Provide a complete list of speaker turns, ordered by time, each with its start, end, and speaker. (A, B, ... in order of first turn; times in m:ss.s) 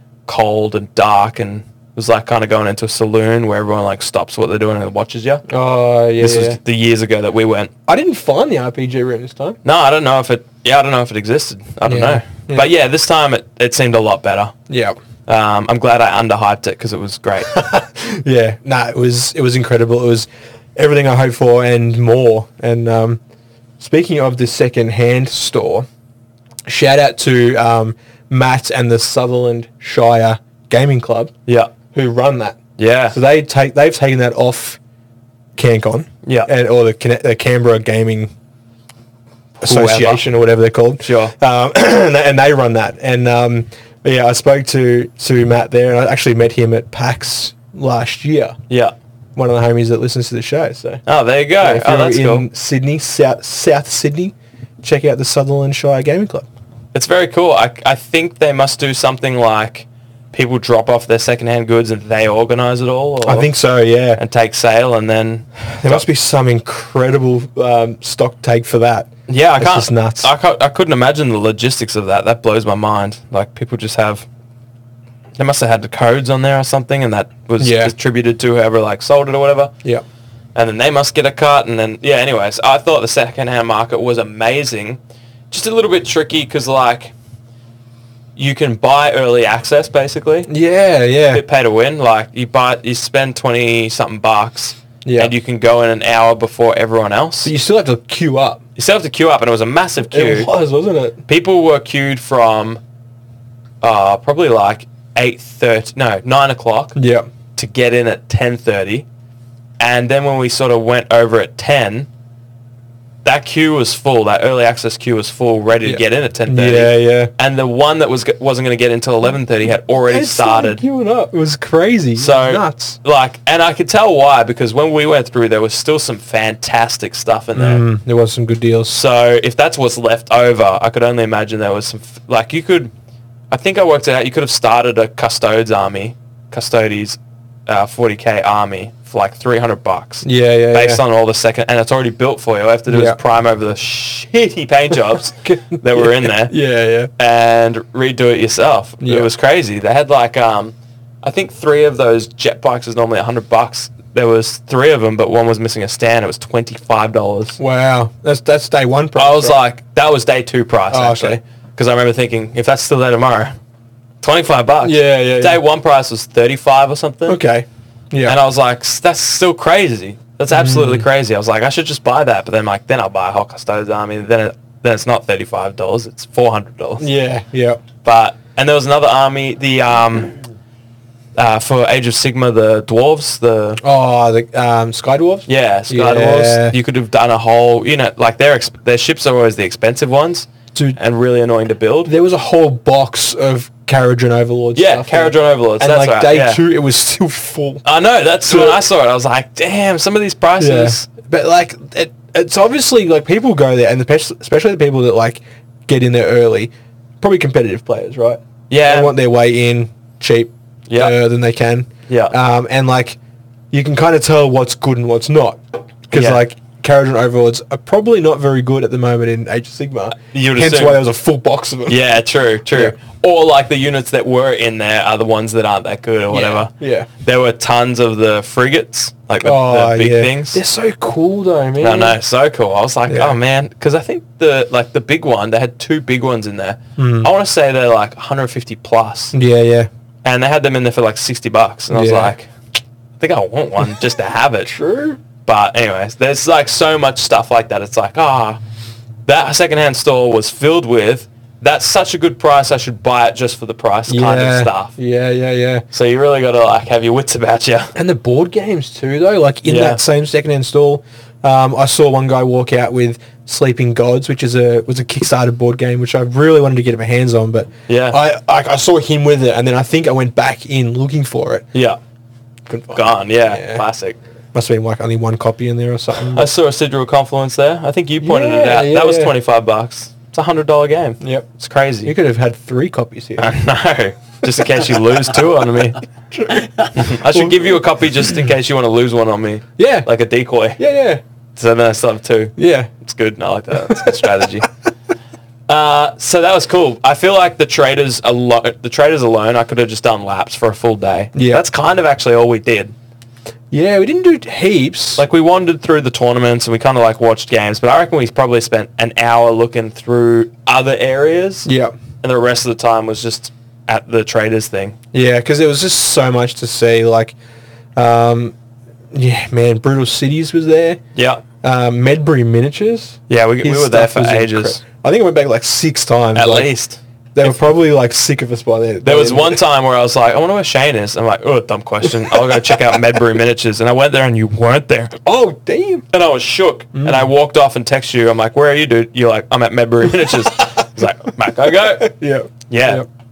0:00.2-0:05.4 A
0:05.5-0:06.6 B
0:06.2-0:07.7 A
0:07.9-0:09.6 B
0:09.6-0:14.5 A
0:11.8-0:12.7 B
0:14.7-0:15.0 B
0:15.3-0:17.5 A
0:17.5-0:23.2 B
0:23.8-0:25.9 B
0:26.6-0:31.3 B
0:31.9-0:32.6 B
0:32.8-0:33.2 A
0:33.1-0:34.8 B
0:35.6-0:38.3 B
0:39.6-0:48.6 B
0:39.6-0:40.2 A
0:41.0-0:41.3 A
0:48.7-0:48.9 A
0:49.4-0:51.0 B
0:51.0-0:52.5 A
0:51.6-0:56.5 B
0:56.9-1:03.5 A
1:03.2-1:04.2 B
1:04.2-1:06.0 A
1:05.7-1:10.3 B
1:09.3-1:14.2 A
1:15.4-1:19.7 A
1:17.6-1:17.9 B
1:20.5-1:25.0 A
1:25.5-1:27.1 A
1:28.4-1:30.5 A
1:30.5-1:31.4 B
1:31.3-1:37.5 A
1:35.0-1:35.3 B
1:37.4-1:38.6 B
1:38.8-1:40.5 A
1:40.1-1:41.2 B
1:41.3-1:42.8 A
1:43.8-1:47.0 A
1:46.9-1:47.3 B
1:47.6-1:49.0 A
1:49.8-1:52.1 A
1:53.2-2:00.8 A
1:55.8-1:57.3 B
2:00.1-2:03.0 B
2:02.2-2:07.8 A
2:07.5-2:09.0 B
2:08.9-2:12.9 A
2:13.5-2:26.5 A
2:20.2-2:21.0 B
2:22.9-2:23.2 B
2:25.4-2:27.1 B
2:27.2-2:37.6 A
2:29.0-2:29.3 B
2:37.6-2:39.6 B
2:39.2-2:43.5 A
2:40.9-2:41.4 B
2:44.2-2:47.4 A
2:44.8-2:45.6 B
2:47.3-2:48.4 B
2:48.2-2:57.1 A
2:50.5-2:51.1 B
2:57.0-2:57.8 B
2:58.0-3:00.4 A
3:01.4-3:03.8 A
3:03.8-3:06.8 B
3:05.5-3:12.1 A
3:12.0-3:17.8 B
3:14.7-3:16.6 A
3:17.8-3:21.0 A
3:18.4-3:18.8 B
3:20.6-3:33.2 B
3:28.7-3:29.1 A
3:30.9-3:31.2 A
3:32.1-3:32.3 A
3:33.7-3:42.0 B
3:36.1-3:36.4 A
3:40.3-3:41.0 A
3:41.9-3:50.6 A
3:46.3-3:47.1 B
3:49.4-3:52.2 B
3:51.8-3:59.4 A
3:53.1-3:53.4 B
3:57.0-3:57.3 B
3:59.3-3:59.9 B
4:00.2-4:02.5 A
4:01.9-4:02.3 B
4:03.2-4:04.7 A
4:04.6-4:05.2 B
4:05.4-4:08.6 A
4:09.2-4:14.9 A
4:14.1-4:15.8 B
4:15.9-4:17.9 A
4:17.9-4:31.7 B
4:19.6-4:20.0 A
4:27.9-4:28.2 A
4:32.7-4:33.8 B
4:32.9-4:34.2 A
4:34.5-4:36.5 B
4:36.3-4:42.1 A
4:38.2-4:39.3 B
4:41.2-4:41.5 B
4:42.0-4:43.5 B
4:43.4-4:46.0 A
4:46.3-4:47.8 B
4:46.9-4:50.8 A
4:49.8-4:50.1 B
4:50.8-4:51.2 B
4:51.6-4:54.7 A
4:52.6-4:52.9 B
4:53.8-4:54.4 B
4:55.7-5:02.9 A
5:01.3-5:01.6 B
5:03.7-5:05.2 B
5:05.2-5:11.7 A
5:11.6-5:11.9 B
5:12.2-5:15.0 A
5:15.1-5:17.4 B
5:18.0-5:18.5 B
5:19.1-5:21.0 B
5:21.1-5:21.4 A
5:21.6-5:26.7 B
5:23.3-5:24.8 A
5:26.3-5:27.6 A
5:27.3-5:29.6 B
5:29.0-5:35.2 A
5:32.3-5:32.6 B
5:35.2-5:36.0 B
5:36.1-5:42.1 A
5:36.9-5:37.3 B
5:42.0-5:43.0 B
5:42.7-5:43.0 A